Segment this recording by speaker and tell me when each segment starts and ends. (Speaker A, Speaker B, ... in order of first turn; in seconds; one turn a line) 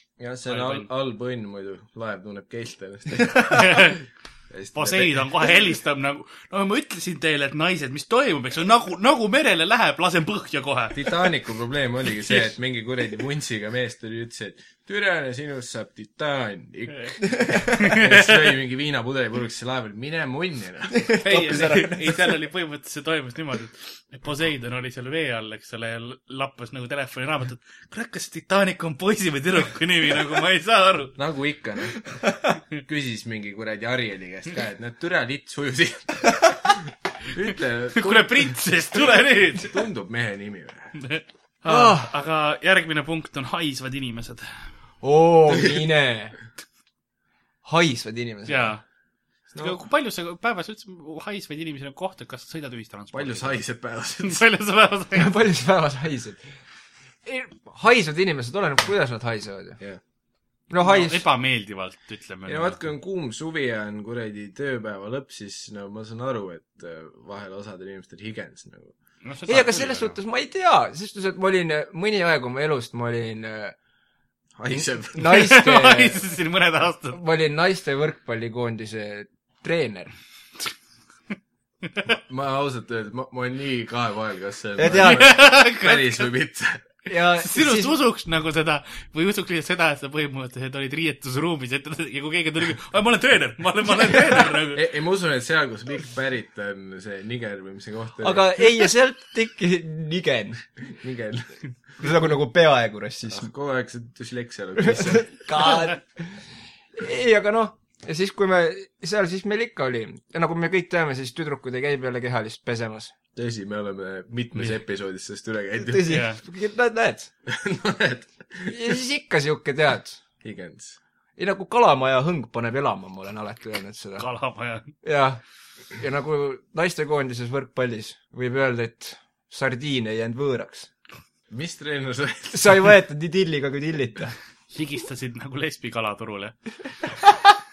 Speaker A: 0.2-5.5
Speaker B: 0.5-0.9
Speaker B: 3.5-4.0
Speaker B: 4.8-11.1
Speaker A: 10.9-21.1
Speaker C: 17.3-17.7
Speaker B: 17.7-18.4
Speaker C: 20.9-22.4
Speaker B: 21.2-31.2
Speaker A: 31.2-32.1
Speaker A: 32.8-41.0
Speaker B: 38.0-39.8
Speaker B: 41.0-44.7
Speaker C: 41.7-42.1
Speaker C: 45.0-46.4
Speaker C: 47.6-48.7
Speaker B: 48.5-48.8
Speaker A: 49.5-49.8
Speaker B: 49.6-53.6
Speaker A: 53.1-54.4
Speaker B: 54.2-55.3
Speaker C: 55.1-56.4
Speaker C: 57.2-59.8
Speaker C: 60.7-61.2
Speaker B: 60.8-62.8
Speaker A: 62.5-68.9
Speaker B: 69.2-70.2
Speaker C: 69.5-73.8
Speaker A: 74.6-75.4
Speaker C: 74.7-76.2
Speaker B: 75.2-77.2
Speaker C: 77.1-80.1
Speaker A: 82.1-86.9
Speaker C: 84.8-85.3
Speaker B: 85.0-86.2
Speaker C: 87.1-88.0
Speaker B: 87.4-94.8
Speaker A: 94.7-98.5
Speaker C: 98.2-100.6
Speaker A: 101.0-102.1
Speaker C: 102.0-103.5
Speaker A: 103.3-105.7
Speaker C: 104.8-113.1
Speaker A: 113.4-116.2
Speaker C: 115.8-117.3
Speaker B: 116.0-116.4
Speaker A: 117.5-118.8
Speaker C: 118.7-120.2
Speaker A: 120.4-121.0
Speaker C: 121.4-124.3
Speaker B: 124.2-124.9
Speaker C: 125.0-125.4
Speaker C: 126.0-130.9
Speaker A: 131.5-132.8
Speaker C: 132.5-134.3
Speaker B: 134.7-136.6